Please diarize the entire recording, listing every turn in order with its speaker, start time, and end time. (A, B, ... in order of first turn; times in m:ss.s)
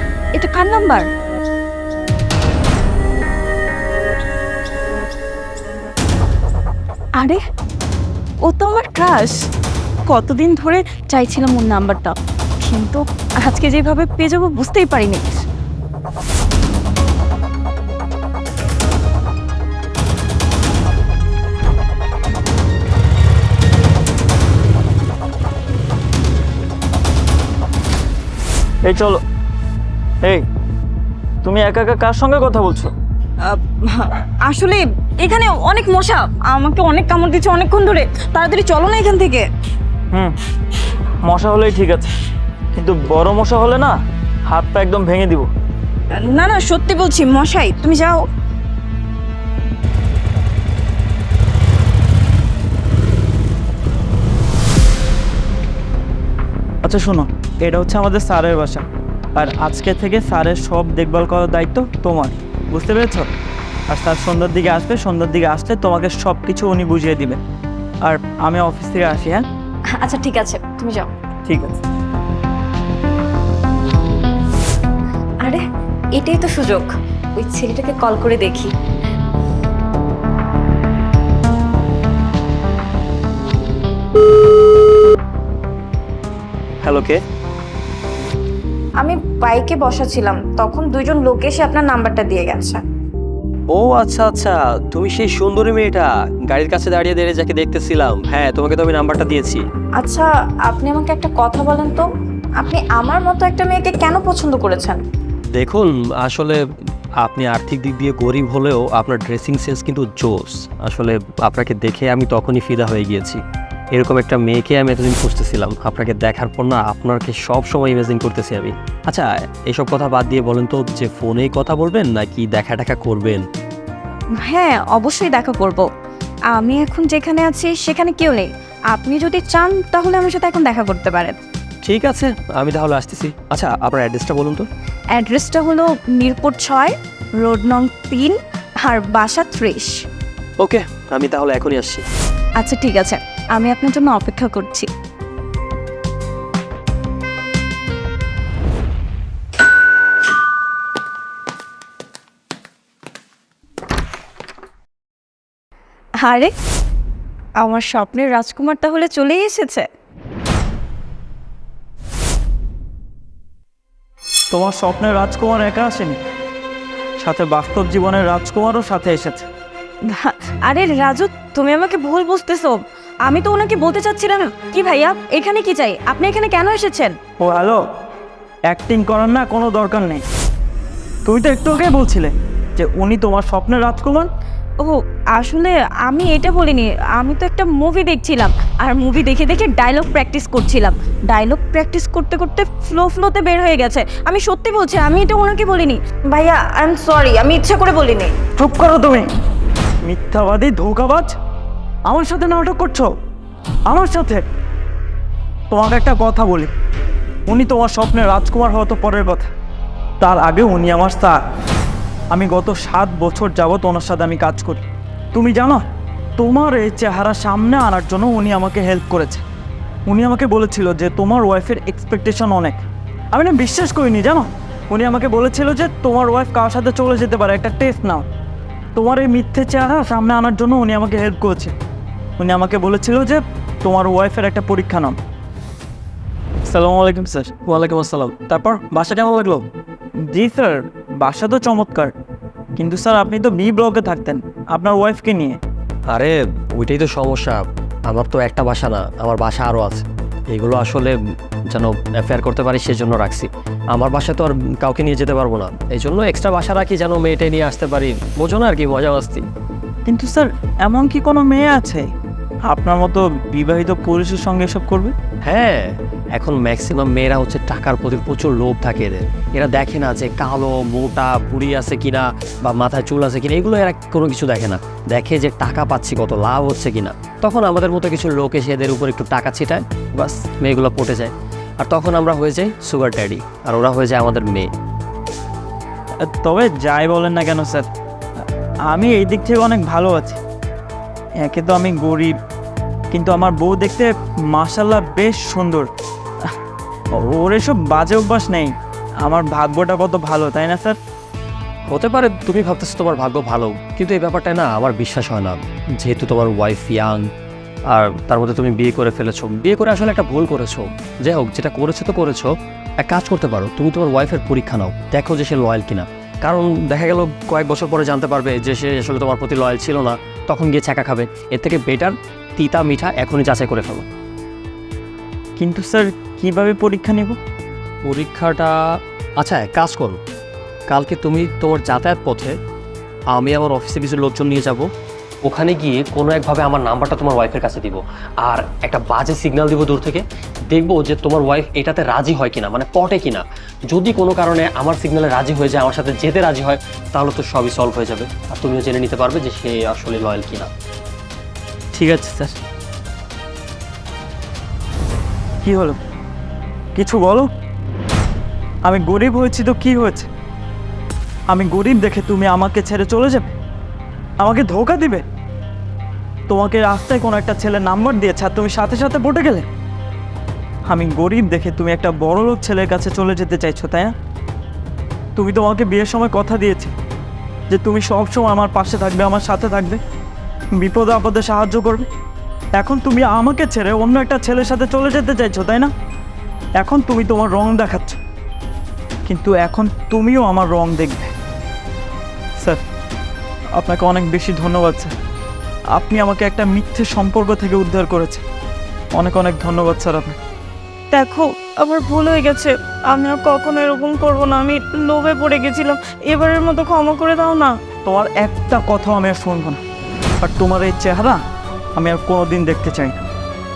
0:00.3-0:01.1 A
0:08.4-0:09.4 A
0:10.1-0:15.4 A
0:28.8-0:29.2 B
0:31.4-0:32.9 B
0:33.4-0:39.4 A
0:41.2-0:42.1 B
0:42.7-0:44.0 B
0:44.5-0:45.5 B
0:46.1-0:48.2 A
0:56.8-0:58.8 B
0:59.4-1:03.3 B
1:03.9-1:07.4 B
1:08.0-1:09.4 B
1:10.0-1:11.1 A
1:11.5-1:11.8 B
1:16.2-1:18.7 A
1:26.8-1:27.2 C
1:29.0-1:32.8 A
1:33.7-1:39.6 C
1:40.0-1:42.1 A
1:42.6-1:45.0 A
1:45.6-1:46.6 C
1:47.2-1:53.4 C
1:54.0-2:03.4 C
2:04.4-2:05.9 A
2:06.5-2:11.3 A
2:11.8-2:14.7 C
2:15.1-2:20.0 A
2:20.6-2:22.0 C
2:22.6-2:24.9 A
2:36.2-2:36.5 A
2:37.6-2:39.9 A
2:44.5-2:46.2 B
2:47.2-2:49.5 B
2:50.1-2:57.2 A
2:57.4-2:57.8 B
2:58.7-3:00.2 B
3:01.2-3:04.3 B
3:04.8-3:18.3 A
3:18.6-3:19.3 B
3:20.0-3:21.4 B
3:22.1-3:23.1 B
3:23.9-3:24.5 B
3:25.7-3:26.7 B
3:27.5-3:29.5 B
3:30.2-3:31.4 B
3:32.3-3:34.8 B
3:35.3-3:35.8 B
3:36.4-3:39.4 B
3:40.1-3:48.2 B
3:49.0-3:51.7 B
3:52.4-3:55.2 B
3:56.7-3:57.5 B
3:57.7-3:59.6 C
4:00.3-4:02.1 B
4:02.8-4:05.6 B
4:06.1-4:11.2 C
4:11.7-4:19.5 C
4:20.1-4:22.1 B
4:22.7-4:25.1 B
4:25.5-4:44.7 C
4:46.3-4:47.9 B
4:48.9-4:50.4 B
4:51.4-4:52.3 B
4:53.1-4:55.9 B
4:57.2-4:58.7 B
4:59.2-5:01.0 B
5:01.9-5:07.2 C
5:07.9-5:12.5 C
5:13.0-5:24.0 C
5:25.6-5:27.4 B
5:28.0-5:28.8 C
5:29.4-5:30.2 C
5:30.9-5:32.5 C
5:33.3-5:34.9 C
5:35.4-5:50.7 C
5:51.9-5:52.6 B
5:55.6-5:56.0 B
5:57.0-5:57.5 B
5:58.8-6:00.3 B
6:01.5-6:03.5 B
6:04.4-6:05.2 B
6:06.5-6:09.7 B
6:10.9-6:14.1 B
6:15.4-6:16.9 B
6:17.7-6:20.0 B
6:20.8-6:22.0 B
6:22.8-6:25.9 B
6:26.8-6:28.2 B
6:29.3-6:31.3 B
6:32.6-6:32.8 B
6:33.8-6:35.1 B
6:36.0-6:38.4 B
6:39.2-6:40.4 B
6:41.1-6:47.7 A
6:48.0-6:49.8 B
6:50.4-6:51.4 B
6:52.0-6:53.2 B